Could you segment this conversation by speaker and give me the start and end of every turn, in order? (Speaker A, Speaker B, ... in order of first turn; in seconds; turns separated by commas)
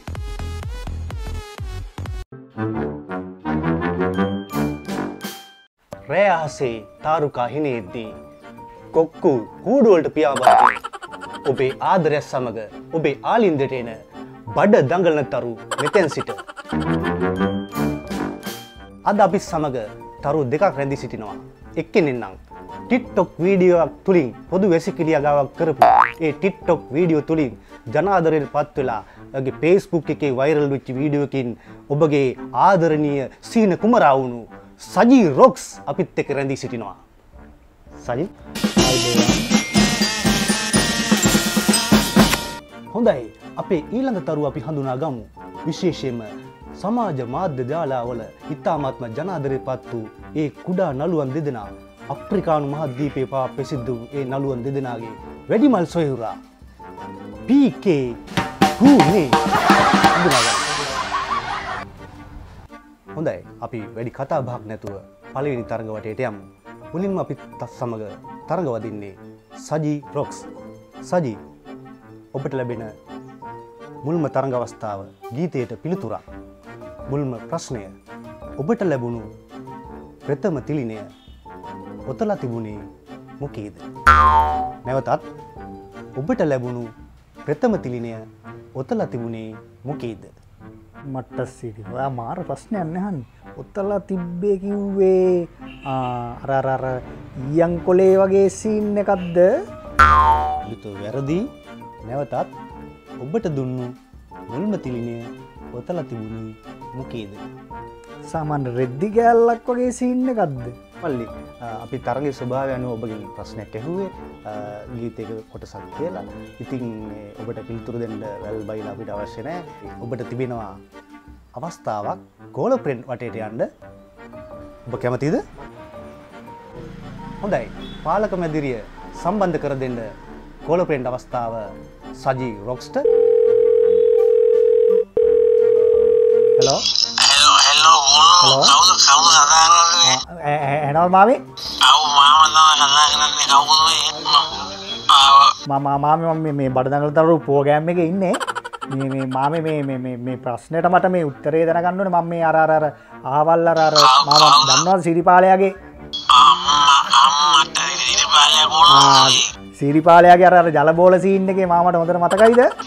Speaker A: 6.1-8.1, Speaker A: 8.9-10.8, Speaker A: 11.4-14.0, Speaker A: 14.5-16.4, Speaker A: 19.1-37.0, Speaker A: 38.0-38.3, Speaker B: 38.8-39.4, Speaker A: 42.9-56.4, Speaker A: 57.5-58.1, Speaker A: 58.8-59.4, Speaker A: 60.1-60.7, Speaker A: 63.1-70.5, Speaker A: 71.0-71.4, Speaker A: 72.3-72.9, Speaker A: 74.0-76.2, Speaker A: 77.1-77.9, Speaker A: 78.6-79.3, Speaker A: 80.3-81.1, Speaker A: 82.1-82.8, Speaker A: 83.4-83.8, Speaker A: 84.9-85.2, Speaker A: 86.2-86.9, Speaker A: 87.5-88.2, Speaker A: 88.8-90.3, Speaker B: 91.1-97.0, Speaker B: 97.5-99.5, Speaker A: 100.7-101.5, Speaker A: 102.1-102.5, Speaker A: 103.2-103.9, Speaker A: 104.5-107.4, Speaker B: 108.3-110.8, Speaker A: 111.0-120.8, Speaker A: 121.5-123.7, Speaker A: 124.9-125.4, Speaker A: 127.4-130.1, Speaker A: 130.7-133.1, Speaker C: 137.2-140.2, Speaker B: 138.4-138.8, Speaker B: 140.0-141.4, Speaker C: 141.8-145.6, Speaker B: 145.7-148.4, Speaker B: 148.9-155.7, Speaker C: 154.0-154.8, Speaker C: 156.3-159.5, Speaker B: 158.9-162.7